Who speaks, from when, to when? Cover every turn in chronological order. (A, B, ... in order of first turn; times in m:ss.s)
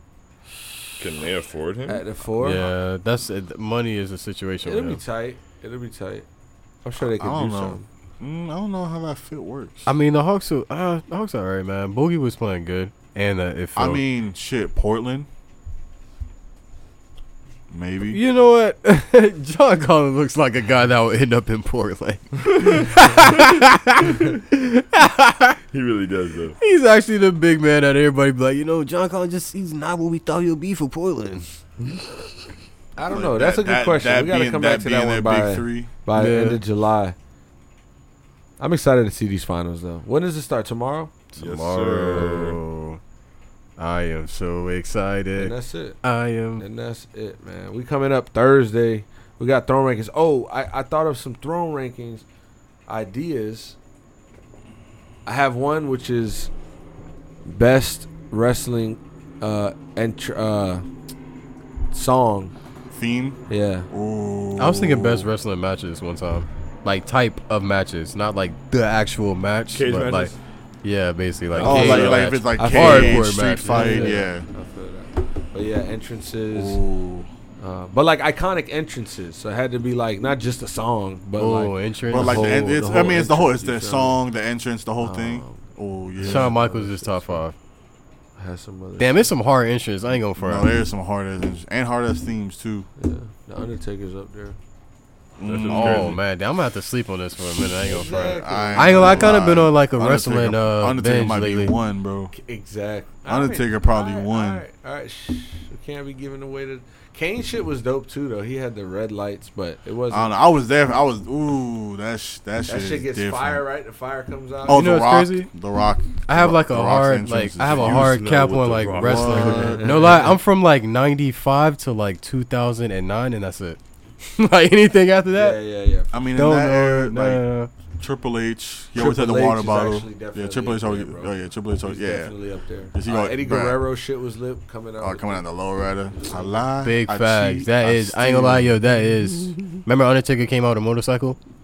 0:01.0-0:02.0 A
0:01.9-0:02.6 B
0:02.4-0:05.0 C
0:04.6-0:06.2 B
0:06.8-0:07.8 B
0:07.0-0:09.9 D
0:09.9-0:14.0 C
0:13.8-0:15.3 D
0:17.7-0:18.2 D
0:18.1-0:25.6 C
0:25.7-0:26.6 A
0:26.6-0:31.5 C
0:33.0-0:37.2 B
0:33.1-0:35.9 D
0:36.2-0:36.6 C
0:38.6-0:41.1 B
0:41.4-0:43.0 C
0:41.4-0:42.6 A
0:43.8-0:46.6 C
0:45.4-0:46.0 B
0:46.6-0:52.2 B
0:52.9-0:53.8 B
0:55.3-0:56.5 B
0:57.5-1:00.8 B
1:01.9-1:02.5 B
1:02.9-1:03.4 D
1:03.5-1:03.9 B
1:03.9-1:05.3 D
1:04.6-1:10.3 C
1:09.7-1:10.4 A
1:10.8-1:14.2 C
1:11.5-1:11.9 A
1:11.6-1:14.4 D
1:11.6-1:16.8 B
1:16.5-1:17.3 D
1:17.6-1:24.2 B
1:21.4-1:22.9 C
1:22.1-1:26.6 D
1:25.0-1:27.4 B
1:26.2-1:27.6 C
1:28.4-1:29.3 B
1:29.0-1:30.7 C
1:30.4-1:32.9 D
1:33.0-1:34.6 B
1:35.4-1:36.2 D
1:35.4-1:36.2 A
1:35.7-1:38.2 C
1:37.8-1:39.4 B
1:37.8-1:42.3 D
1:38.7-1:41.8 C
1:42.3-1:50.3 B
1:43.3-1:44.6 D
1:50.1-1:53.6 D
1:52.7-1:55.0 B
1:54.6-1:58.2 D
1:54.7-1:55.5 C
1:56.3-2:05.6 C
1:57.8-1:59.8 A
1:59.0-2:00.4 B
1:59.5-1:59.7 D
2:05.3-2:06.1 B
2:06.1-2:07.4 D
2:06.3-2:07.7 C
2:08.0-2:12.3 D
2:09.0-2:15.4 B
2:12.9-2:13.8 D
2:15.0-2:18.8 D
2:16.2-2:16.6 B
2:16.8-2:21.4 C